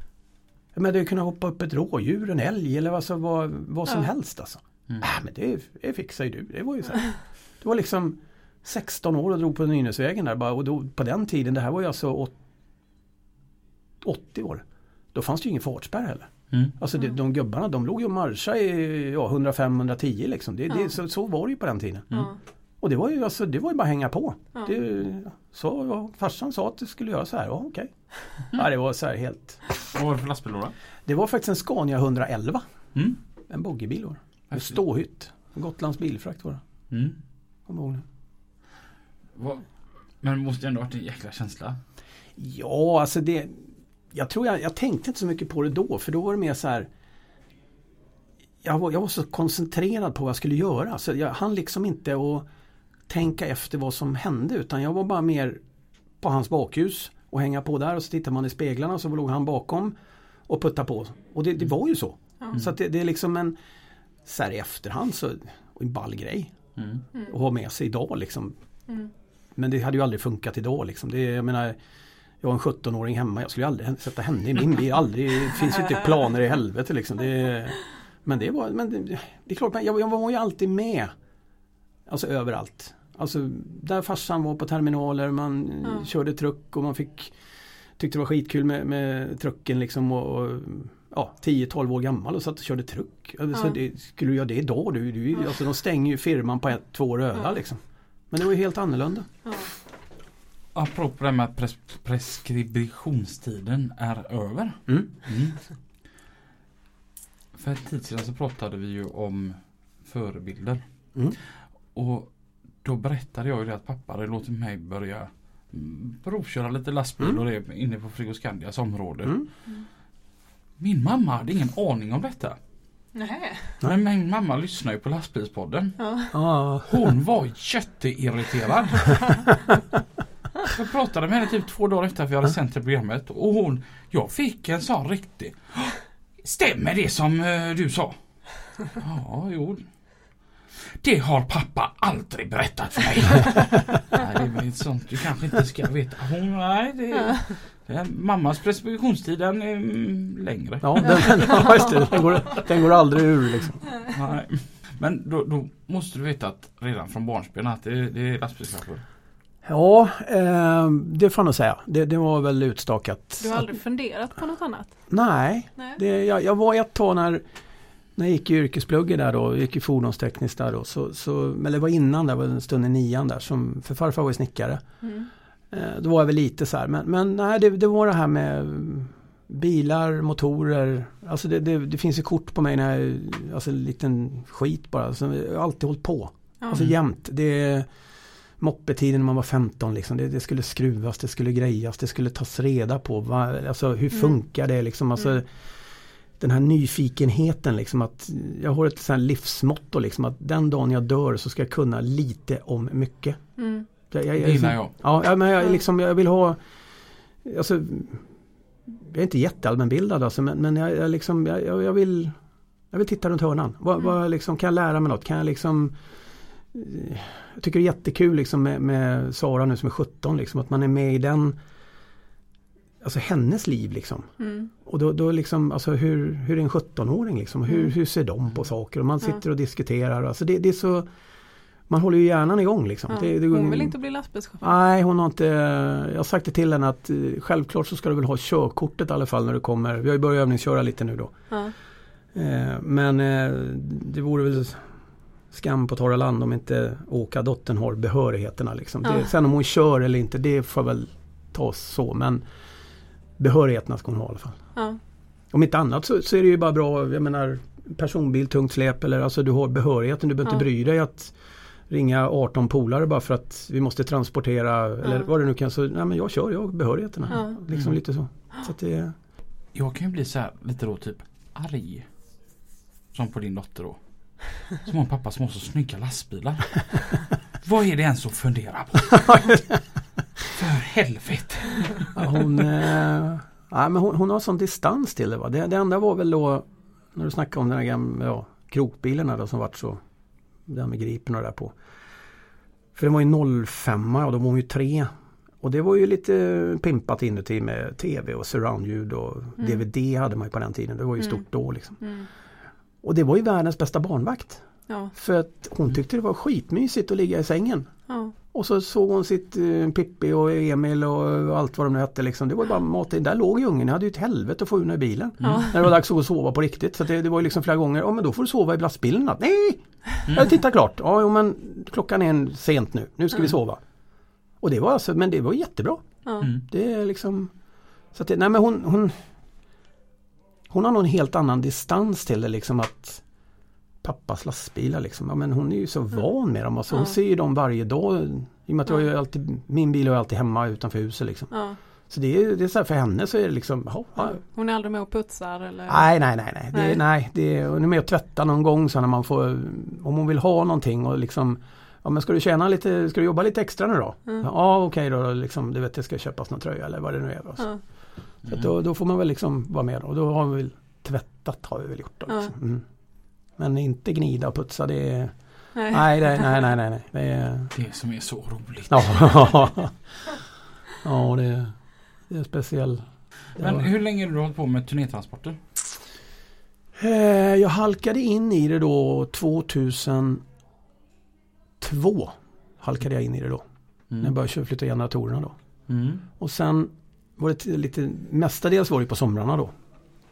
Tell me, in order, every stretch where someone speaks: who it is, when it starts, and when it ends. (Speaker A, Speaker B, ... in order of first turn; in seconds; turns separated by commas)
Speaker A: 0.7-12.3, Speaker A: 14.0-22.2, Speaker A: 22.8-29.6, Speaker B: 29.9-30.7, Speaker A: 31.1-32.6, Speaker A: 33.5-36.6, Speaker B: 34.5-34.8, Speaker B: 36.9-37.2, Speaker A: 37.7-38.0, Speaker B: 39.3-39.7, Speaker B: 40.2-41.8, Speaker A: 42.4-46.9, Speaker A: 48.6-52.5, Speaker A: 53.1-55.6, Speaker A: 56.2-59.9, Speaker A: 60.5-63.5, Speaker A: 64.2-66.5, Speaker B: 66.8-67.0, Speaker A: 67.3-68.5, Speaker A: 69.5-71.8, Speaker A: 72.4-81.1, Speaker A: 82.1-87.3, Speaker C: 85.8-86.1, Speaker A: 88.0-99.3, Speaker C: 99.4-99.7, Speaker B: 100.7-105.6, Speaker B: 107.5-110.8, Speaker B: 111.9-119.3, Speaker B: 120.8-122.5, Speaker C: 123.1-123.8, Speaker B: 123.8-126.0, Speaker C: 126.0-126.3, Speaker A: 126.3-126.9, Speaker B: 126.8-129.4, Speaker B: 130.7-138.2, Speaker B: 138.7-139.9, Speaker B: 140.8-152.2, Speaker A: 150.8-153.8, Speaker C: 151.4-151.8, Speaker B: 154.1-159.0, Speaker A: 159.6-163.6, Speaker C: 163.4-165.0, Speaker A: 165.1-167.4, Speaker A: 168.2-174.8, Speaker C: 175.0-175.3, Speaker A: 175.7-187.9, Speaker A: 188.6-195.5, Speaker A: 196.4-203.4, Speaker C: 203.6-203.9, Speaker A: 204.1-206.6, Speaker B: 204.4-204.9, Speaker A: 207.4-208.2, Speaker A: 208.9-212.3, Speaker A: 212.9-215.9, Speaker A: 216.7-221.6, Speaker A: 223.0-224.3, Speaker C: 224.4-224.7, Speaker A: 224.8-231.1, Speaker A: 231.9-233.9, Speaker C: 233.1-234.7, Speaker A: 234.6-241.5, Speaker C: 241.5-241.7, Speaker A: 242.3-244.9, Speaker A: 245.5-252.4, Speaker C: 249.0-249.3, Speaker A: 253.4-254.6, Speaker A: 255.5-261.3, Speaker A: 261.9-269.1, Speaker C: 267.3-267.6, Speaker B: 269.7-272.1, Speaker B: 273.1-279.6, Speaker A: 279.2-279.6, Speaker B: 280.5-282.4, Speaker A: 282.1-290.0, Speaker A: 290.6-291.7, Speaker A: 292.9-295.1, Speaker A: 295.6-302.0, Speaker C: 302.0-302.3, Speaker A: 303.0-307.9, Speaker C: 304.9-305.1, Speaker C: 308.1-308.3, Speaker A: 308.5-323.8, Speaker B: 315.4-315.7, Speaker C: 315.4-315.7, Speaker A: 324.6-327.5, Speaker C: 326.2-326.5, Speaker A: 328.1-329.1, Speaker A: 330.7-333.2, Speaker A: 334.0-341.5, Speaker C: 336.9-337.1, Speaker C: 341.5-341.8, Speaker A: 342.1-344.4, Speaker C: 344.2-346.1, Speaker A: 345.9-362.8, Speaker C: 346.7-347.0, Speaker A: 363.6-367.7, Speaker C: 365.7-366.6, Speaker B: 367.7-369.7, Speaker A: 368.9-370.0, Speaker A: 371.0-373.9, Speaker B: 373.6-375.6, Speaker A: 376.9-380.4, Speaker A: 381.8-383.6, Speaker A: 384.2-385.5, Speaker B: 385.9-386.2, Speaker A: 386.4-389.7